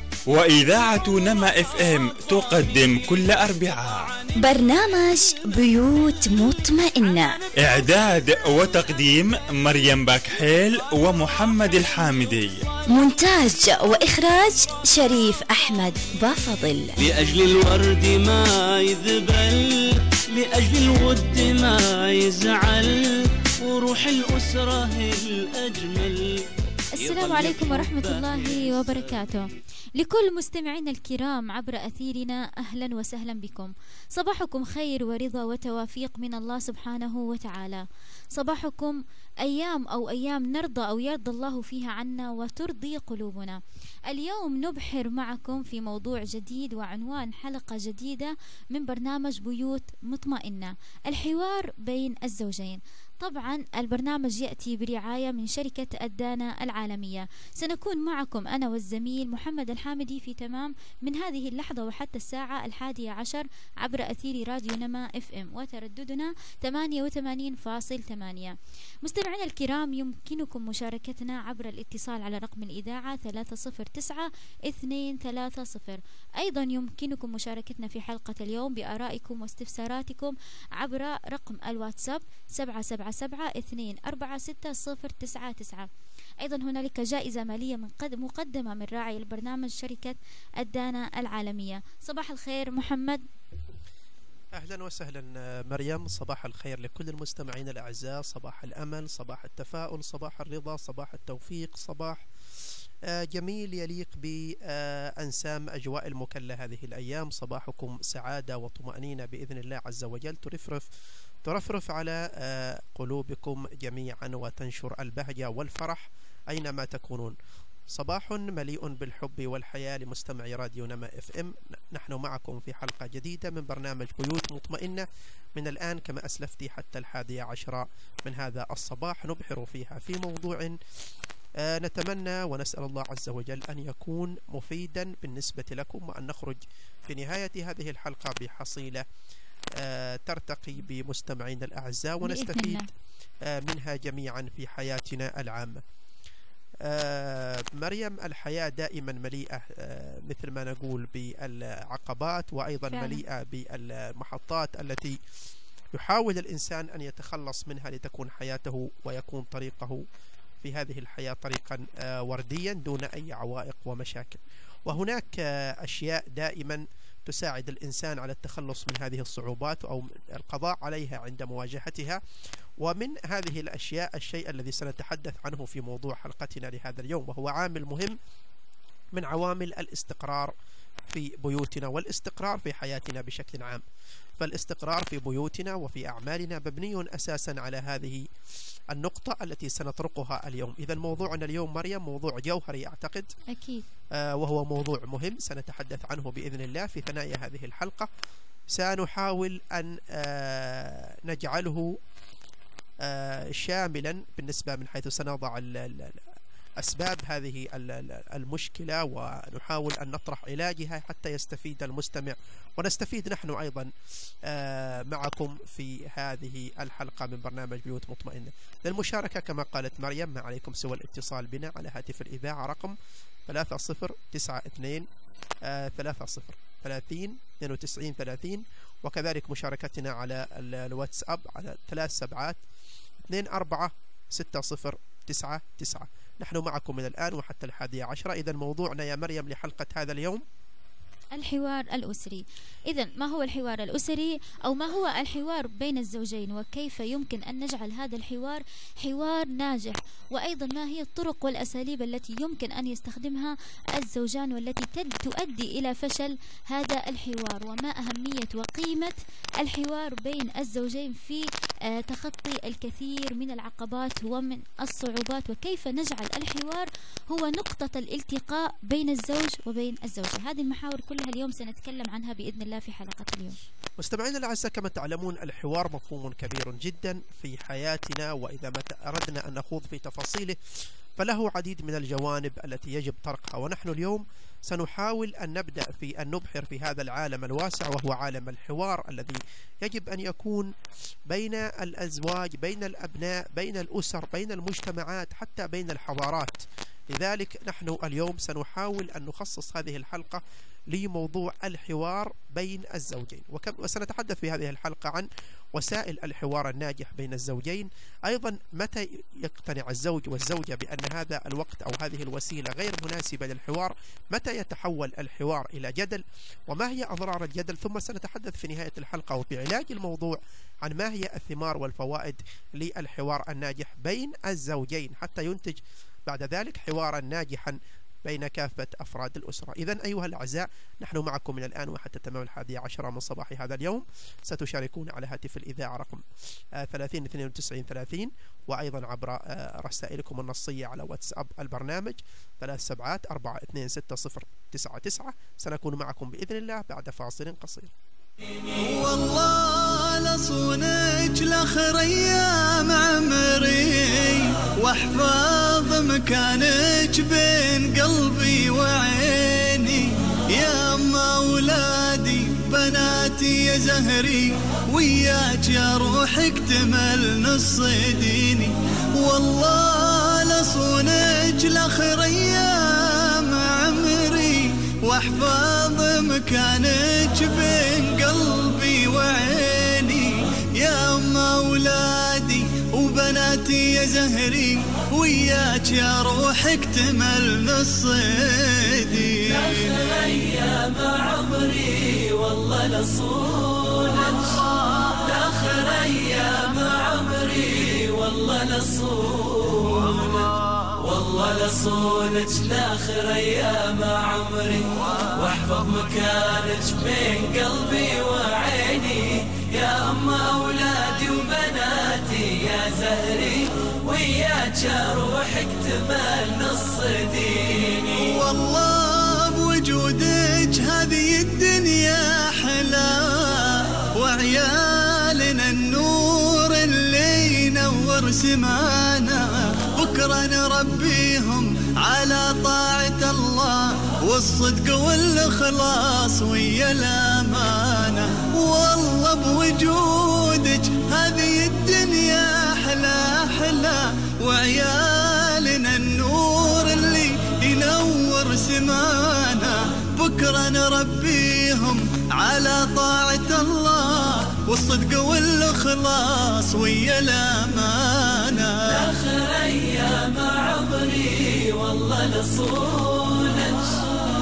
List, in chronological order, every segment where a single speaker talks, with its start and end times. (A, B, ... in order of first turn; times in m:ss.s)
0:00.3-0:04.1 A
0:00.7-0:05.0 B
0:04.4-0:07.4 C
0:06.7-0:12.8 B
0:07.6-0:12.6 A
0:12.9-0:17.0 C
0:17.0-0:29.4 B
0:27.0-0:37.8 D
0:38.3-1:25.9 D
1:26.4-1:33.2 D
1:34.5-1:50.9 E
1:51.4-1:57.4 E
1:57.9-2:10.8 E
2:11.6-2:19.1 E
2:19.8-2:22.9 E
2:22.2-2:22.9 D
2:23.4-2:25.8 E
2:26.8-2:35.2 E
2:32.9-2:33.2 D
2:35.9-2:40.0 E
2:40.6-2:52.2 E
2:52.8-2:58.2 E
2:59.2-3:00.5 E
3:01.1-3:03.8 E
3:04.4-3:08.3 E
3:08.9-3:13.3 E
3:13.5-3:13.8 D
3:14.1-3:18.1 E
3:18.7-3:22.0 E
3:23.0-3:33.9 E
3:34.4-3:45.1 E
3:45.6-3:52.6 E
3:53.2-4:00.4 E
4:01.4-4:33.6 D
4:34.0-4:40.6 E
4:41.2-4:50.7 E
4:51.3-5:36.2 E
5:36.8-5:47.9 E
5:48.8-6:29.9 F
6:29.5-6:58.2 G
6:58.1-7:39.1 F
7:38.9-7:44.0 G